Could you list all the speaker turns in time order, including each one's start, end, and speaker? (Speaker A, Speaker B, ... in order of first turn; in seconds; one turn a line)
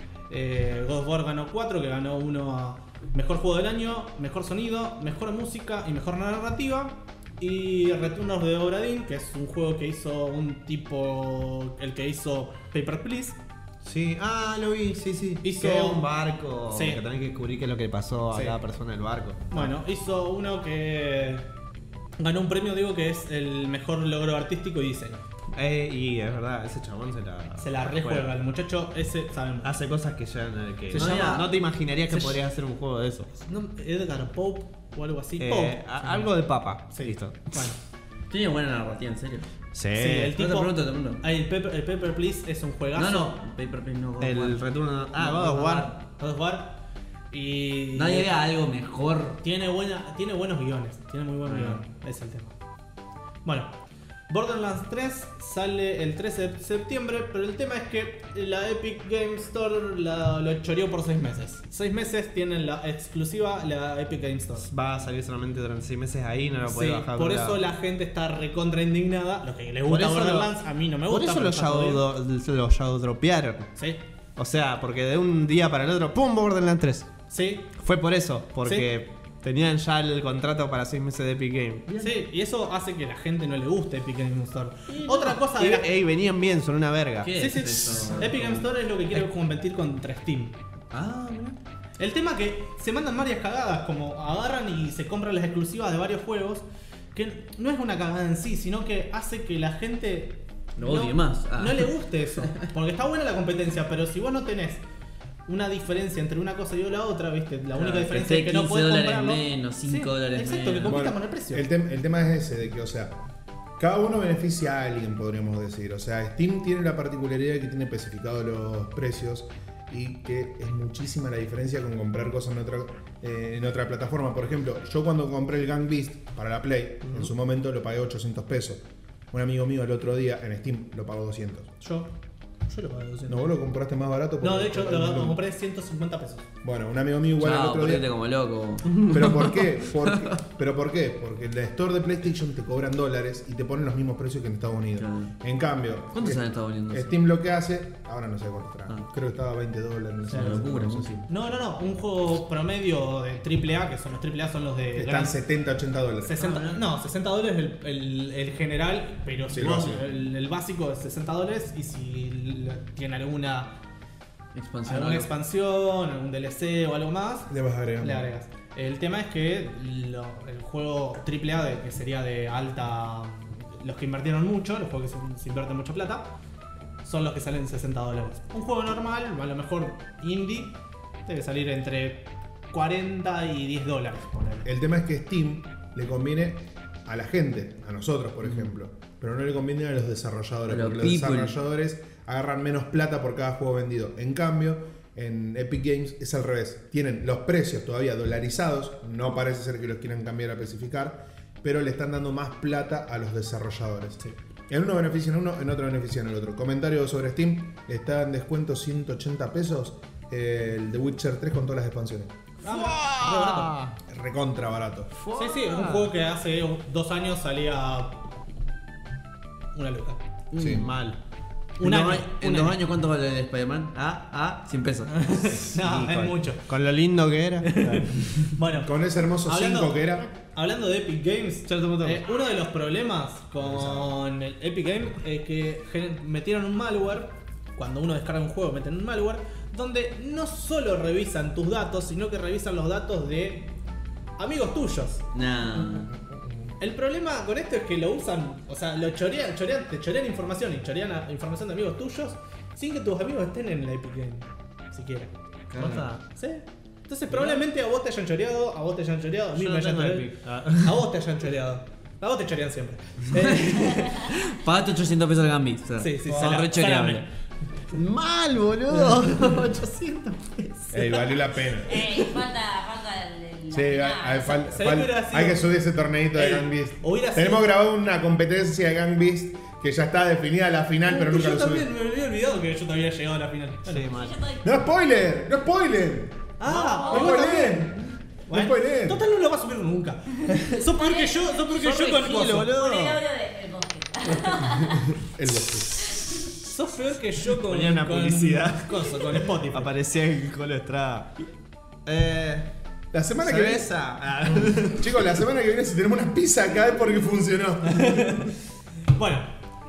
Speaker A: 0.3-13.4
Speaker B: 13.8-19.7
Speaker A: 15.4-16.1
Speaker A: 16.7-17.0
Speaker A: 18.3-18.6
Speaker A: 19.5-21.4
Speaker A: 22.2-25.2
Speaker B: 25.6-28.3
Speaker A: 27.6-29.7
Speaker B: 29.6-33.3
Speaker A: 30.9-31.5
Speaker C: 30.9-31.5
Speaker A: 32.1-32.4
Speaker A: 33.4-36.4
Speaker B: 35.4-37.5
Speaker A: 36.9-37.8
Speaker C: 38.3-39.5
Speaker B: 39.7-40.4
Speaker A: 40.0-43.4
Speaker C: 40.4-41.2
Speaker C: 43.0-44.7
Speaker B: 44.2-45.9
Speaker A: 45.2-46.8
Speaker A: 47.3-48.3
Speaker C: 47.9-49.4
Speaker A: 49.4-52.5
Speaker C: 51.5-51.8
Speaker A: 53.5-53.7
Speaker A: 54.3-64.7
Speaker B: 64.6-67.6
Speaker A: 66.7-72.0
Speaker B: 69.9-70.5
Speaker B: 71.1-73.7
Speaker A: 73.8-74.0
Speaker B: 74.4-77.1
Speaker A: 77.3-77.7
Speaker B: 77.8-82.2
Speaker A: 78.7-78.9
Speaker A: 82.0-85.9
Speaker B: 84.9-87.3
Speaker C: 87.2-88.7
Speaker A: 87.3-90.6
Speaker C: 90.9-91.6
Speaker A: 92.0-104.8
Speaker C: 100.8-102.7
Speaker A: 105.5-111.7
Speaker C: 107.8-111.0
Speaker D: 110.9-113.2
Speaker D: 113.8-131.7
Speaker A: 131.8-132.1
Speaker A: 132.7-133.5
Speaker D: 133.3-135.4
Speaker A: 134.4-136.5
Speaker D: 136.6-138.1
Speaker C: 137.4-140.4
Speaker D: 139.1-151.3
Speaker C: 145.0-145.3
Speaker C: 146.1-147.2
Speaker C: 150.3-151.3
Speaker A: 151.3-155.4
Speaker D: 154.9-156.4
Speaker A: 156.2-163.7
Speaker C: 156.4-156.8
Speaker D: 159.5-160.1
Speaker C: 164.5-165.4
Speaker A: 164.9-176.3
Speaker D: 167.5-168.3
Speaker A: 177.0-184.7
Speaker D: 184.7-212.3
Speaker C: 190.7-191.6
Speaker A: 212.6-213.8
Speaker B: 212.6-214.0
Speaker D: 214.1-215.1
Speaker B: 215.2-216.1
Speaker A: 215.3-218.2
Speaker A: 219.8-220.2
Speaker C: 220.5-220.8
Speaker D: 220.6-220.9
Speaker B: 220.6-221.2
Speaker A: 221.8-222.8
Speaker C: 221.8-225.6
Speaker A: 225.1-226.7
Speaker B: 225.6-228.2
Speaker A: 227.6-228.9
Speaker D: 228.7-230.3
Speaker A: 229.4-243.7
Speaker B: 231.7-232.2
Speaker D: 233.6-234.1
Speaker A: 244.4-245.2
Speaker C: 245.3-246.1
Speaker D: 246.1-246.4
Speaker A: 246.8-255.3
Speaker C: 255.7-256.1
Speaker B: 255.7-256.2
Speaker A: 256.3-264.3
Speaker B: 257.3-257.6
Speaker B: 259.6-261.0
Speaker C: 263.3-267.3
Speaker A: 266.0-267.3
Speaker B: 266.3-266.6
Speaker B: 267.9-271.3
Speaker D: 270.9-272.1
Speaker E: 271.9-274.7
Speaker D: 273.7-281.9
Speaker A: 274.7-275.7
Speaker A: 276.3-277.7
Speaker A: 281.1-284.1
Speaker B: 283.9-284.4
Speaker E: 284.1-284.7
Speaker D: 284.6-286.5
Speaker A: 286.6-287.9
Speaker B: 286.7-287.2
Speaker E: 287.0-287.3
Speaker D: 287.1-289.2
Speaker A: 288.5-292.7
Speaker E: 290.9-291.8
Speaker B: 291.8-293.2
Speaker E: 292.6-295.2
Speaker D: 295.2-296.2
Speaker A: 296.6-299.9
Speaker B: 297.6-301.4
Speaker B: 302.1-302.7
Speaker D: 303.1-308.5
Speaker B: 303.4-305.2
Speaker A: 307.9-308.5
Speaker A: 309.1-309.5